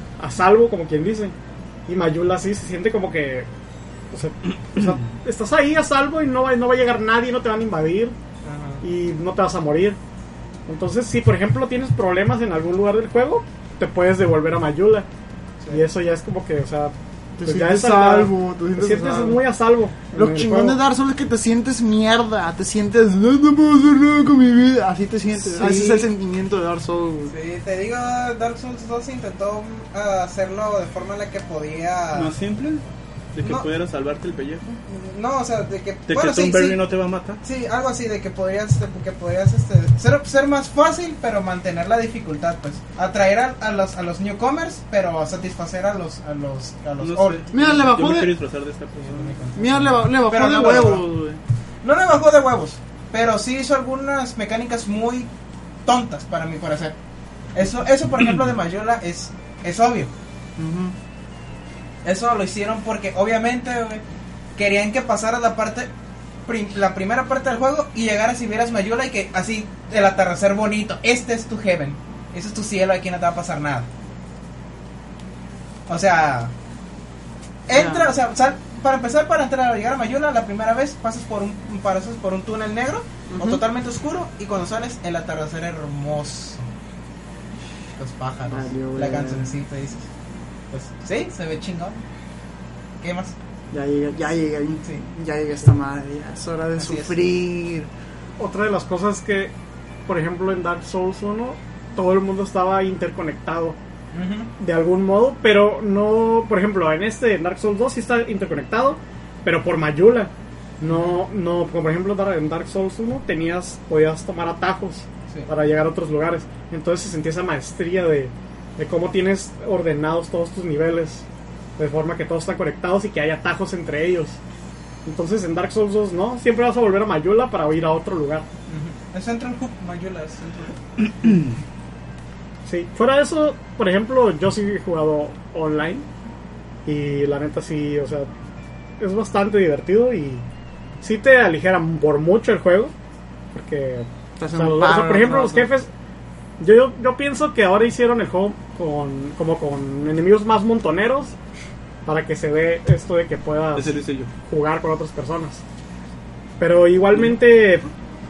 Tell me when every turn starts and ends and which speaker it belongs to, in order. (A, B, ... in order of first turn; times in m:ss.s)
0:00.2-0:01.4 A
0:01.9-0:03.5 A
0:04.1-0:08.2 A
0:08.4-0:08.8 B
0:08.8-0:10.0 A
0:10.7-0:15.1 A
0:15.7-0:20.8 A
0:17.4-0:19.4 C
0:20.1-0:27.3 C
0:25.6-0:26.0 B
0:25.6-0:26.0 D
0:27.3-0:32.4 B
0:32.1-0:32.8 D
0:33.3-0:34.8 D
0:33.4-0:33.7 B
0:34.9-0:36.8 B
0:36.1-0:37.4 D
0:37.4-0:47.5 B
0:47.0-0:49.7 D
0:47.5-0:48.3 C
0:49.0-0:51.1 B
0:49.6-0:51.4 C
0:51.8-0:55.3 B
0:55.9-0:57.0 B
0:57.5-1:00.1 B
1:00.6-1:01.0 C
1:02.0-1:04.0 B
1:04.6-1:05.9 B
1:06.5-1:13.9 B
1:15.9-1:16.5 B
1:17.7-1:26.7 B
1:17.7-1:18.2 C
1:23.3-1:23.6 C
1:28.0-1:30.1 B
1:28.5-1:29.6 C
1:30.7-1:32.0 B
1:33.0-1:33.4 B
1:33.7-1:37.9 C
1:36.8-1:37.2 B
1:38.4-1:39.5 A
1:40.1-1:43.8 A
1:44.1-1:44.5 B
1:44.6-2:01.2 A
2:01.8-2:04.4 A
2:05.0-2:08.5 A
2:08.7-2:11.4 B
2:12.7-2:16.1 A
2:16.9-2:18.3 A
2:19.0-2:20.4 A
2:21.0-2:22.9 A
2:23.5-2:25.9 A
2:24.4-2:25.7 C
2:26.6-2:31.4 A
2:32.1-2:35.6 A
2:33.8-2:34.3 D
2:36.6-2:37.9 A